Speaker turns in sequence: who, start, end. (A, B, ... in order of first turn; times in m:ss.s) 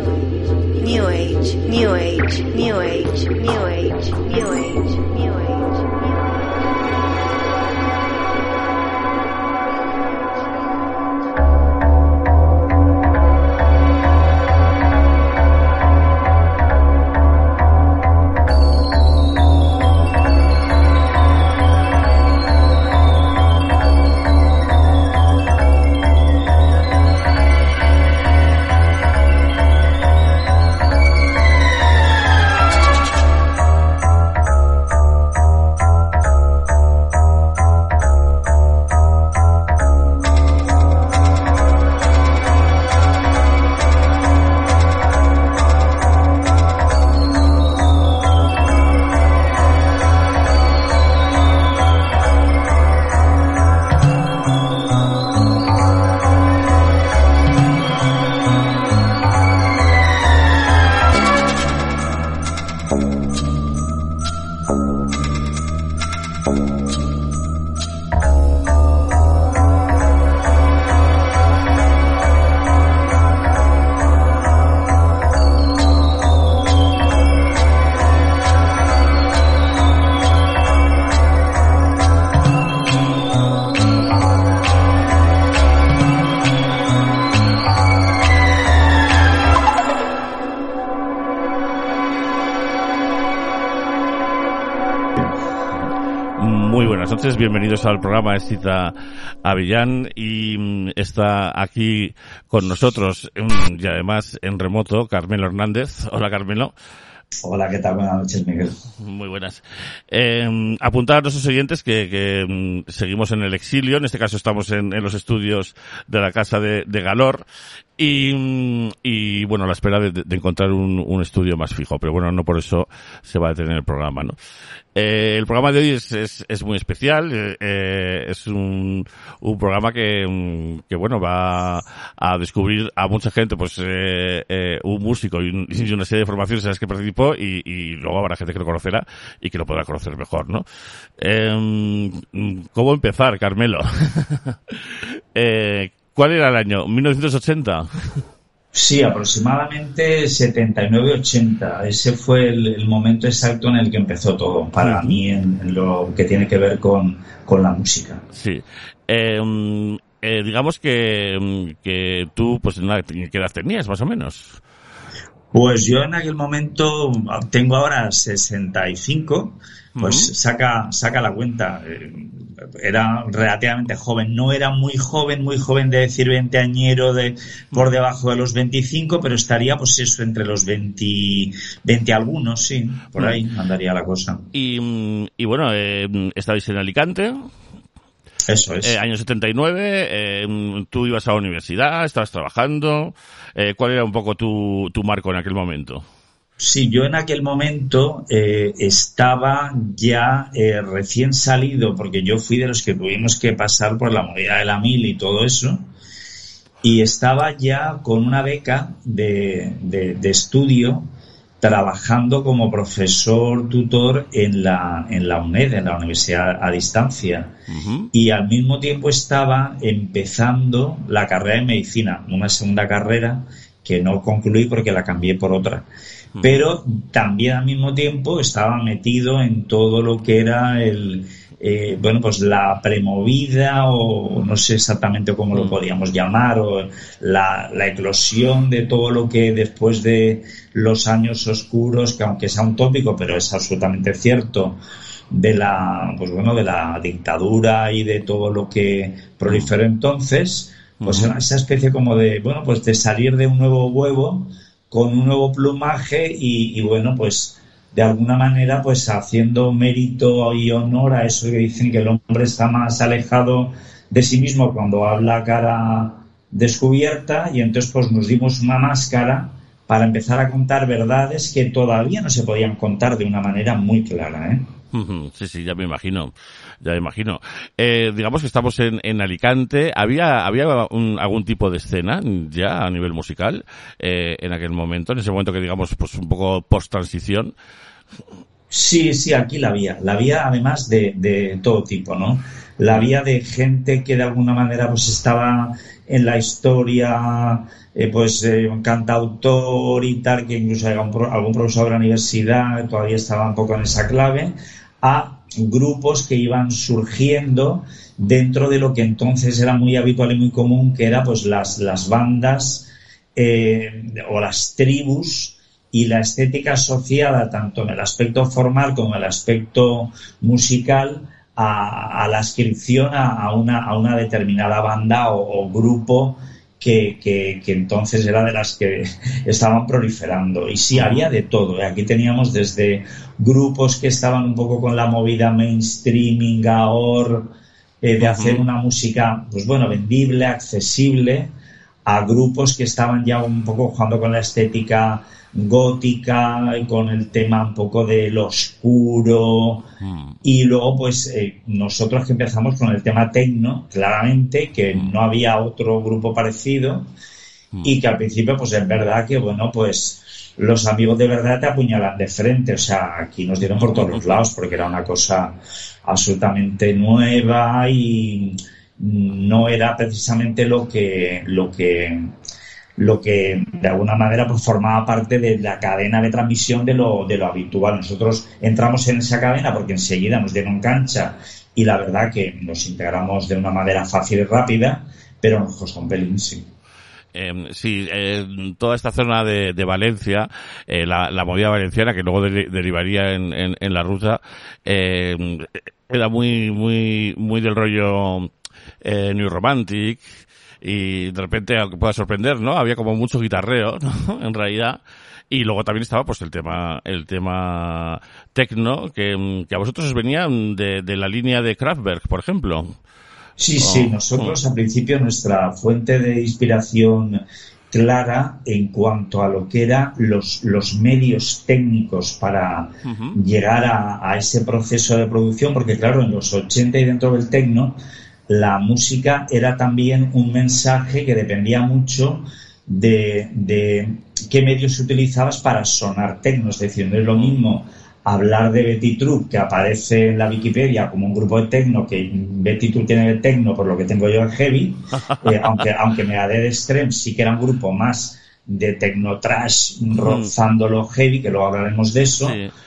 0:00.7-0:05.9 A
1:36.4-1:46.7 B
1:47.4-1:48.8 C
1:49.0-1:57.5 B
1:58.0-2:04.4 B
2:05.0-2:20.7 B
2:21.2-2:28.2 B
2:28.7-2:38.2 C
2:34.8-2:35.2 B
2:38.3-2:44.6 B
2:45.5-3:04.5 C
2:50.0-2:50.3 B
3:04.5-3:07.5 B
3:08.5-3:09.0 C
3:08.8-3:16.1 B
3:16.6-3:25.9 C
3:26.8-3:31.0 C
3:31.6-3:37.6 C
3:37.7-3:38.1 B
3:38.1-3:45.9 C
3:46.4-3:46.6 B
3:46.4-4:04.8 C
4:05.3-4:34.7 C
4:11.0-4:11.3 B
4:34.9-4:47.5 B
4:48.7-5:41.5 C
5:30.9-5:31.2 B
5:38.2-5:38.7 B
5:42.1-5:49.9 C
5:50.0-5:50.4 B
5:50.4-5:57.1 C
5:57.8-6:12.3 C
6:03.8-6:04.2 B
6:13.0-6:26.7 C
6:27.3-6:53.0 B
6:53.6-7:32.6 C
6:53.8-6:54.6 B
7:03.0-7:03.4 B
7:25.3-7:25.9 B
7:30.2-7:30.5 B
7:32.4-7:32.7 B